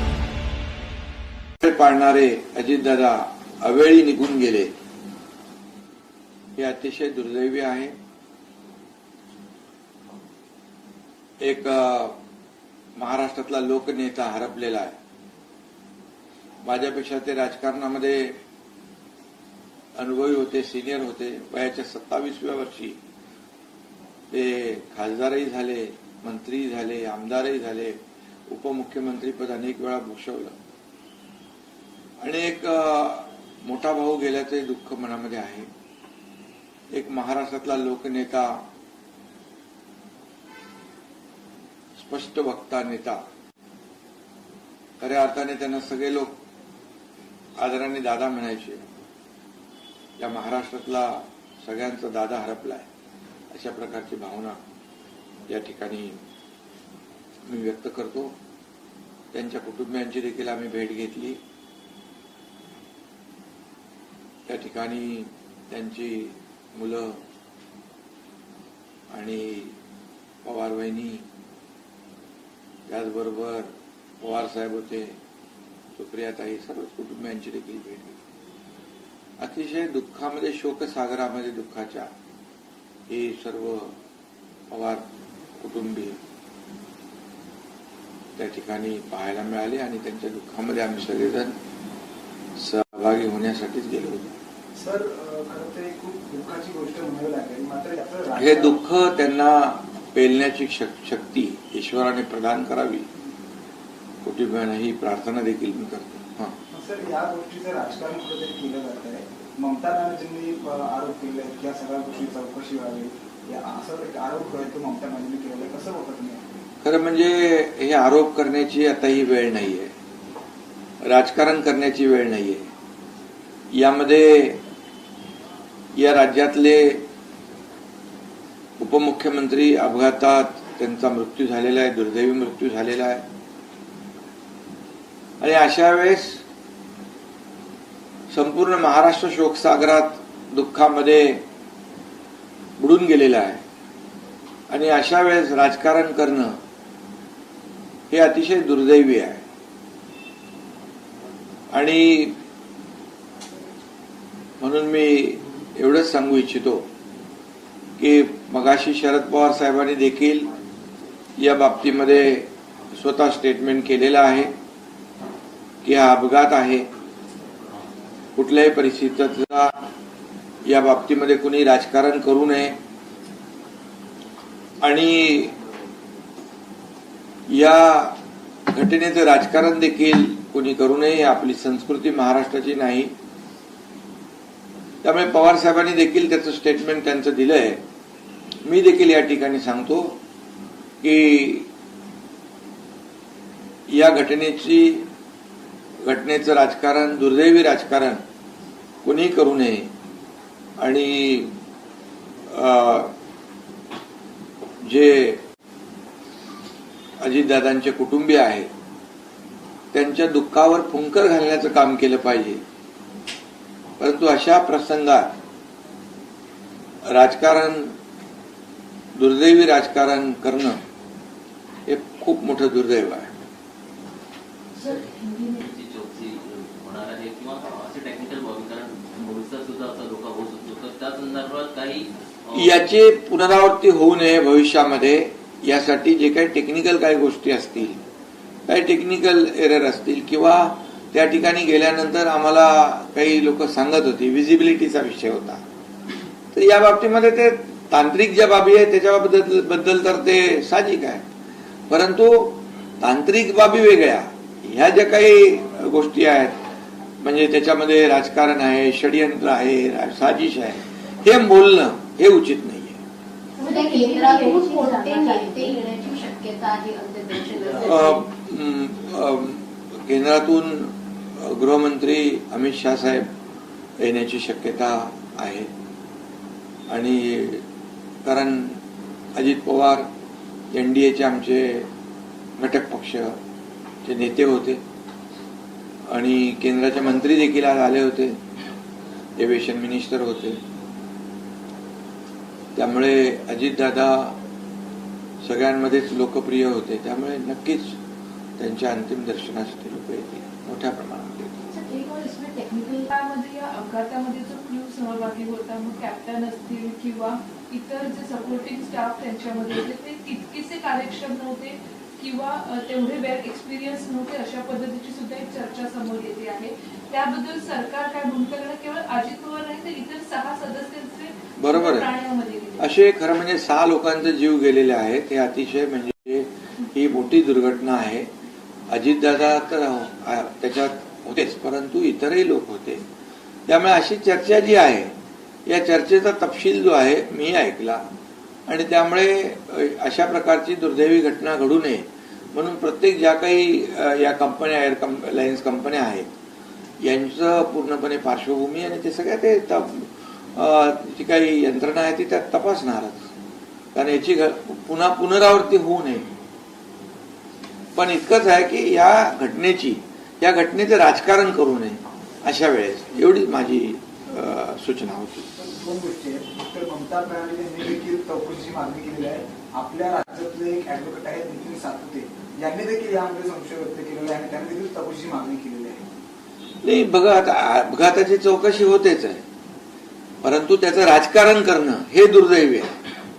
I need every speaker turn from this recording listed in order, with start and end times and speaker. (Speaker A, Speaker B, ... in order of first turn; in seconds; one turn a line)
Speaker A: 1.6-4.7
Speaker A: 6.6-8.0
Speaker A: 11.4-12.2
Speaker A: 13.0-15.0
Speaker A: 16.6-18.4
Speaker A: 20.0-23.0
Speaker A: 24.3-28.0
Speaker A: 28.5-30.6
Speaker A: 32.2-35.7
Speaker A: 36.9-38.6
Speaker A: 42.0-43.2
Speaker A: 45.0-46.3
Speaker A: 47.6-48.9
Speaker A: 50.2-52.9
Speaker A: 53.5-54.6
Speaker A: 55.5-56.2
Speaker A: 57.5-58.3
Speaker A: 59.3-61.4
Speaker A: 64.5-67.2
Speaker A: 69.1-69.8
Speaker A: 70.4-71.2
Speaker A: 72.9-75.2
Speaker A: 76.0-78.2
Speaker A: 79.4-82.1
Speaker A: 83.1-83.9
Speaker A: 84.7-85.0
Speaker A: 85.6-86.2
Speaker A: 88.4-91.6
Speaker A: 92.6-94.2
Speaker B: 94.8-98.8
Speaker A: 98.4-103.1
Speaker A: 104.2-106.6
Speaker B: 106.7-116.4
Speaker A: 116.8-119.9
Speaker A: 121.0-122.7
Speaker A: 123.7-124.6
Speaker A: 126.0-127.0
Speaker A: 128.8-133.2
Speaker A: 135.4-136.4
Speaker A: 138.3-141.4
Speaker A: 142.8-143.6
Speaker A: 144.7-146.6
Speaker A: 148.1-149.4
Speaker A: 151.7-152.3
Speaker A: 154.6-156.9
Speaker A: 158.0-160.5
Speaker A: 161.4-164.5
Speaker A: 165.8-166.9
Speaker A: 168.4-169.8
Speaker A: 170.7-172.8
Speaker A: 174.8-175.6
Speaker A: 177.5-178.2
Speaker A: 178.7-183.1
Speaker A: 185.0-187.8
Speaker A: 188.7-190.2
Speaker A: 191.0-191.7
Speaker A: 193.9-195.1
Speaker A: 196.0-198.2
Speaker A: 199.0-199.9
Speaker A: 200.8-201.5
Speaker A: 202.5-203.1
Speaker A: 204.8-205.4
Speaker A: 207.2-208.7
Speaker A: 209.9-212.6
Speaker A: 214.0-215.3
Speaker A: 217.1-217.9
Speaker A: 219.2-220.8
Speaker A: 221.9-223.3
Speaker C: 224.8-225.7
Speaker D: 225.6-232.8
Speaker A: 232.5-238.0
Speaker A: 238.7-245.6
Speaker A: 246.5-251.2
Speaker A: 251.9-256.6
Speaker A: 257.2-263.0
Speaker E: 263.6-268.2
Speaker A: 267.8-273.3
Speaker A: 274.0-275.7
Speaker A: 276.9-277.6
Speaker A: 278.2-278.8
Speaker A: 279.4-280.1
Speaker A: 280.7-281.9
Speaker A: 282.6-283.4
Speaker A: 284.1-284.8
Speaker A: 286.1-288.4
Speaker A: 289.4-290.6
Speaker A: 292.8-294.4
Speaker A: 295.4-298.0
Speaker A: 298.6-301.7
Speaker C: 301.7-322.9
Speaker A: 321.6-322.1
Speaker A: 322.8-328.3
Speaker A: 328.9-333.0
Speaker A: 333.7-335.1
Speaker A: 335.7-338.0
Speaker A: 338.7-346.3
Speaker A: 347.0-353.3
Speaker A: 353.9-356.3
Speaker A: 357.9-365.5
Speaker B: 365.6-376.0
Speaker A: 376.8-379.4
Speaker A: 380.4-382.9